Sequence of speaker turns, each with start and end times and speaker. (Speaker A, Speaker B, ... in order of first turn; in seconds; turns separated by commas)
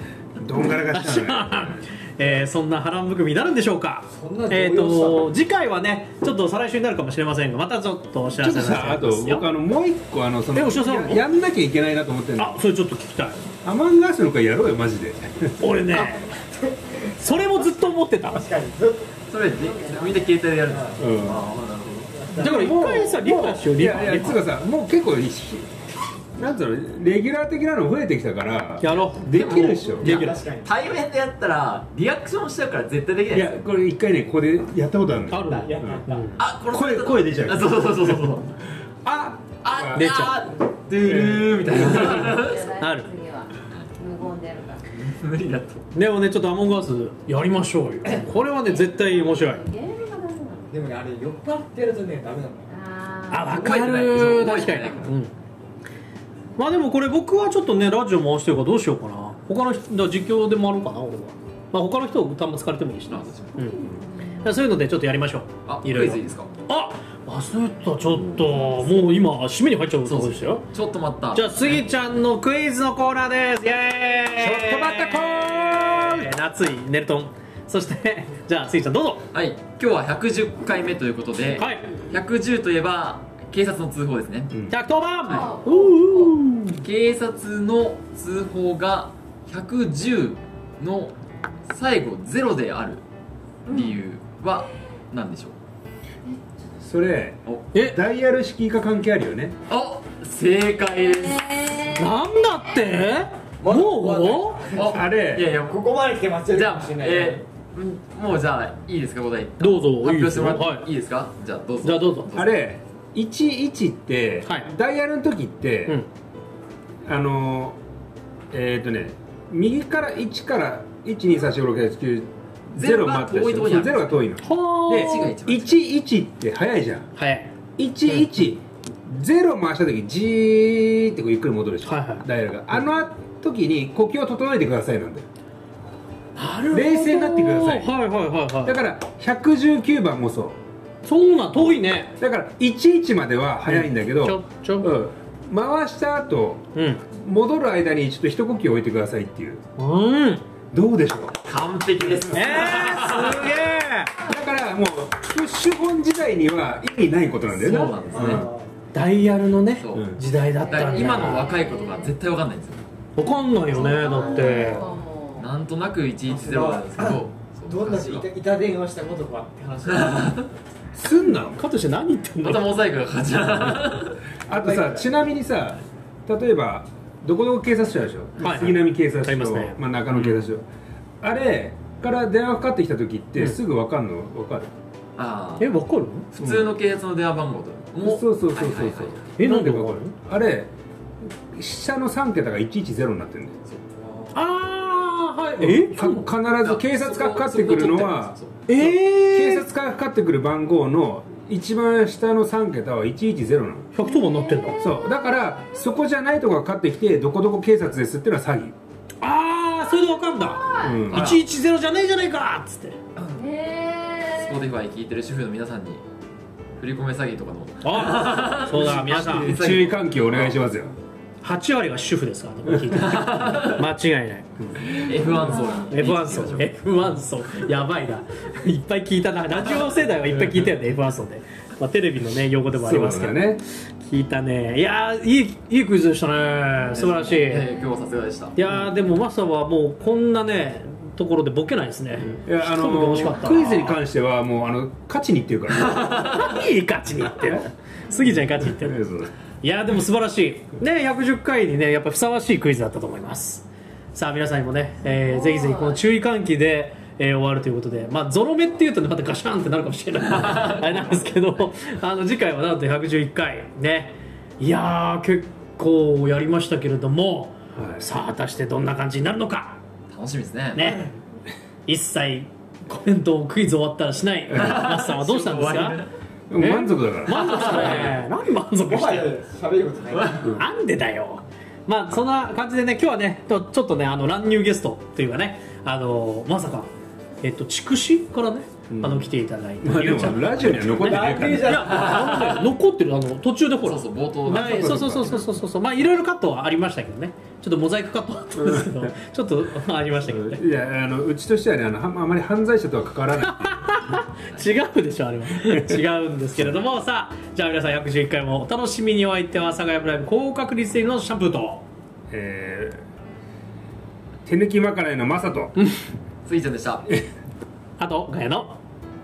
Speaker A: 0.4-1.8, Speaker B: 0.9-9.5, Speaker C: 4.1-5.3, Speaker A: 8.4-12.6, Speaker B: 10.5-11.2, Speaker B: 12.4-13.4, Speaker A: 13.6-15.6, Speaker B: 15.6-16.2, Speaker C: 15.9-17.7, Speaker B: 17.2-18.4, Speaker C: 18.3-19.2, Speaker D: 19.3-22.2, Speaker E: 19.6-20.1, Speaker C: 20.7-21.0, Speaker A: 21.0-21.5, Speaker C: 22.1-22.7, Speaker B: 22.4-24.4, Speaker A: 22.4-25.7, Speaker A: 26.4-30.1, Speaker B: 28.8-30.4, Speaker D: 28.8-33.6, Speaker C: 30.0-30.7, Speaker A: 33.3-36.0, Speaker B: 35.3-36.4, Speaker C: 35.5-36.3, Speaker D: 36.4-38.5, Speaker A: 36.7-38.3, Speaker A: 39.0-40.2, Speaker D: 39.6-42.7, Speaker B: 39.9-40.4, Speaker A: 41.0-41.9, Speaker E: 41.8-44.8, Speaker B: 42.8-43.1, Speaker D: 44.9-45.8, Speaker B: 45.9-49.6, Speaker E: 48.0-50.8, Speaker C: 50.7-52.7, Speaker E: 52.7-53.8, Speaker B: 53.3-55.3, Speaker D: 53.5-55.1, Speaker B: 56.6-63.8, Speaker D: 63.1-63.6, Speaker E: 63.5-64.3, Speaker B: 64.4-70.6, Speaker D: 65.7-66.5, Speaker A: 68.1-68.6, Speaker D: 70.0-71.8, Speaker B: 71.3-79.2, Speaker A: 74.4-76.3, Speaker D: 79.3-84.5, Speaker B: 81.6-81.9, Speaker A: 84.5-84.8, Speaker B: 84.7-86.8, Speaker E: 85.2-86.4, Speaker D: 85.3-85.5, Speaker D: 86.8-91.1, Speaker D: 91.7-93.0, Speaker D: 93.7-95.5, Speaker E: 93.7-94.0, Speaker A: 96.8-99.5, Speaker B: 97.7-98.0, Speaker D: 99.7-101.9, Speaker B: 102.0-104.7, Speaker C: 103.6-107.4, Speaker D: 104.7-105.9, Speaker A: 104.8-105.5, Speaker D: 106.5-112.6, Speaker B: 109.6-110.8, Speaker B: 111.8-112.3, Speaker A: 112.3-116.0, Speaker B: 114.4-114.7, Speaker A: 117.0-117.8, Speaker A: 118.5-127.1, Speaker D: 122.8-125.8, Speaker B: 124.4-125.3, Speaker B: 127.2-127.5, Speaker A: 127.8-135.2, Speaker B: 131.8-132.2, Speaker B: 136.3-138.8, Speaker A: 136.7-138.0, Speaker A: 138.6-140.6, Speaker B: 141.0-142.2, Speaker A: 142.2-149.6, Speaker B: 143.7-144.9, Speaker B: 146.7-147.0, Speaker B: 149.8-150.4, Speaker A: 150.7-151.4, Speaker D: 151.4-153.6, Speaker B: 152.3-154.1, Speaker A: 154.2-158.5, Speaker D: 157.5-158.5, Speaker C: 158.1-158.7, Speaker B: 158.9-161.5, Speaker D: 159.8-162.8, Speaker A: 159.9-160.2, Speaker E: 160.6-162.1, Speaker B: 163.2-164.8, Speaker E: 163.7-165.5, Speaker D: 163.8-164.7, Speaker D: 165.4-168.3, Speaker C: 166.3-170.5, Speaker D: 169.8-170.5, Speaker A: 170.9-171.6, Speaker B: 171.3-172.6, Speaker D: 172.4-174.2, Speaker A: 174.5-180.7, Speaker C: 174.5-175.1, Speaker B: 178.4-179.8, Speaker D: 180.1-180.4, Speaker A: 181.2-184.7, Speaker D: 185.2-185.7, Speaker B: 185.6-186.3, Speaker D: 186.3-189.2, Speaker A: 186.4-186.7, Speaker A: 188.0-190.7, Speaker B: 189.4-190.1, Speaker A: 191.5-193.6, Speaker D: 193.7-194.4, Speaker B: 194.3-196.2, Speaker A: 195.6-203.9, Speaker D: 196.6-198.6, Speaker B: 198.7-199.7, Speaker B: 203.9-204.8, Speaker E: 204.0-205.4, Speaker A: 204.8-208.7, Speaker B: 209.2-213.0, Speaker E: 210.3-211.1, Speaker A: 210.7-211.3, Speaker D: 211.1-211.4, Speaker E: 213.3-214.5, Speaker D: 214.4-216.0, Speaker D: 216.8-220.6, Speaker B: 217.8-219.5, Speaker A: 218.7-220.9, Speaker B: 221.4-224.5, Speaker A: 222.7-223.2, Speaker D: 222.9-223.8, Speaker D: 224.8-227.0, Speaker E: 224.9-225.9, Speaker B: 225.9-237.7, Speaker A: 232.8-233.6, Speaker D: 236.9-238.6, Speaker B: 238.6-244.0, Speaker A: 242.4-246.3, Speaker D: 245.7-246.5, Speaker B: 246.2-249.0, Speaker A: 248.3-249.3, Speaker B: 249.6-269.8, Speaker E: 255.1-256.0, Speaker D: 260.4-260.9, Speaker A: 267.7-268.0, Speaker D: 270.1-271.0, Speaker B: 270.7-271.1, Speaker B: 271.9-276.0, Speaker D: 274.5-276.1, Speaker A: 276.5-278.2, Speaker B: 276.6-279.3, Speaker D: 277.3-278.1, Speaker C: 278.9-280.5, Speaker B: 280.6-286.9, Speaker B: 287.4-300.6, Speaker A: 288.9-289.3, Speaker A: 289.8-292.1, Speaker C: 291.0-292.5, Speaker D: 291.9-292.6, Speaker D: 293.8-295.4, Speaker A: 294.5-295.4, Speaker A: 298.6-299.1, Speaker A: 300.3-304.1, Speaker B: 303.4-311.8, Speaker A: 305.6-305.9, Speaker A: 312.3-313.0, Speaker A: 314.4-315.8, Speaker D: 316.4-317.1, Speaker B: 318.0-318.8